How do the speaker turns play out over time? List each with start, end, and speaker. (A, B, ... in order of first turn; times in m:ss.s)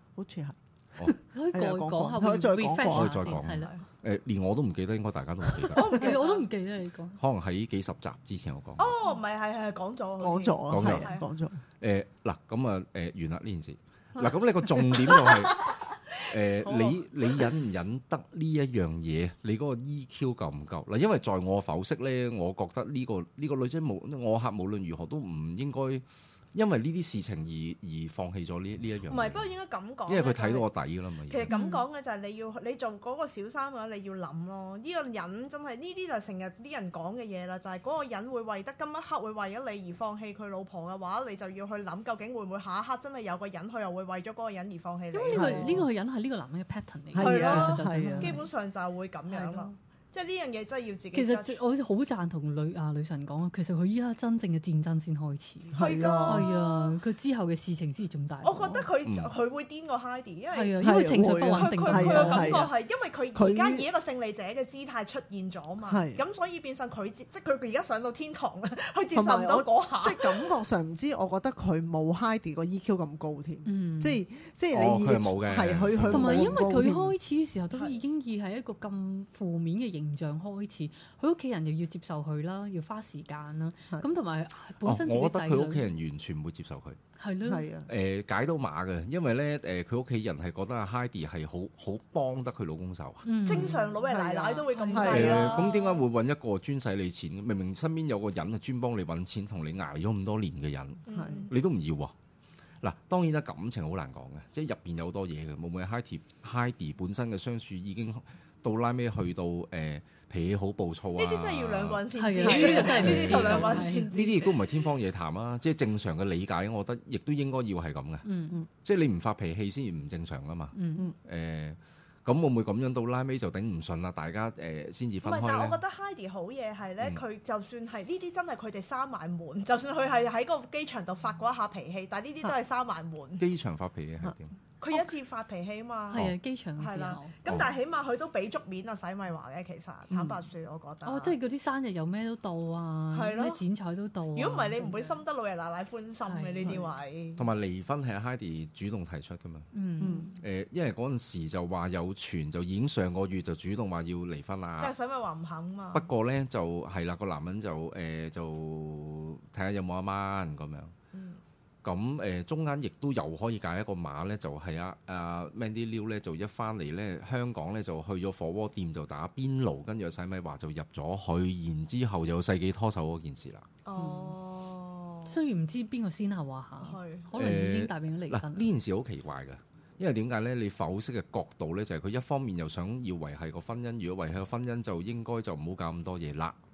0:00.2-0:03.4 A
0:01.3-0:03.7 B
0:02.9-0:06.0 C
0:03.5-0:03.8 D
0:05.8-0:06.5 D
0:05.8-0:07.2 B
0:07.2-0:08.9 C
0:08.8-0:11.2 D
0:10.2-0:11.6 A
0:10.7-0:11.2 C
0:11.8-0:29.5 C
0:14.8-0:15.2 A
0:15.3-0:15.8 D
0:16.6-0:17.0 D
0:29.1-0:30.7 D
0:30.1-0:31.5 C
0:31.3-0:45.8 D
0:31.5-0:31.8 B
0:45.1-0:48.5 B
0:45.3-0:45.9 A
0:47.1-0:48.4 A
0:47.2-0:51.6 D
0:49.3-0:49.7 B
0:51.1-0:58.8 B
0:55.7-0:56.5 A
0:55.8-0:57.0 D
0:58.4-1:00.9 D
0:59.0-0:59.3 C
1:00.5-1:02.7 B
1:00.8-1:02.7 A
1:01.5-1:10.5 D
1:03.3-1:03.9 A
1:05.9-1:06.2 A
1:09.1-1:17.2 A
1:13.6-1:14.2 B
1:14.7-1:16.6 C
1:16.1-1:25.9 B
1:17.7-1:18.0 D
1:24.8-1:27.0 C
1:27.2-1:27.7 B
1:27.4-1:27.9 A
1:27.9-1:33.3 C
1:33.2-1:33.9 B
1:33.4-1:36.0 D
1:33.5-1:35.6 A
1:34.7-1:35.6 B
1:35.0-1:42.1 C
1:41.1-1:41.5 D
1:41.1-1:41.5 A
1:42.8-1:52.1 C
1:51.2-1:54.6 D
1:52.1-1:54.1 B
1:52.4-1:53.0 A
1:52.8-1:58.3 C
1:58.2-1:58.6 B
1:58.8-2:05.8 C
2:00.7-2:01.1 B
2:05.2-2:13.4 D
2:13.4-2:14.6 C
2:14.8-2:21.4 D
2:16.1-2:17.4 B
2:21.0-2:25.2 B
2:23.1-2:23.6 D
2:24.4-2:27.4 D
2:26.2-2:26.9 B
2:27.4-2:29.7 C
2:29.7-2:30.3 B
2:30.0-2:30.4 A
2:30.4-2:34.9 C
2:34.8-2:36.1 D
2:35.9-2:40.9 C
2:41.1-2:41.4 D
2:41.8-2:53.7 C
2:53.8-2:55.4 D
2:54.0-2:54.3 A
2:55.3-2:58.7 B
2:56.8-2:57.3 D
2:57.3-3:06.6 C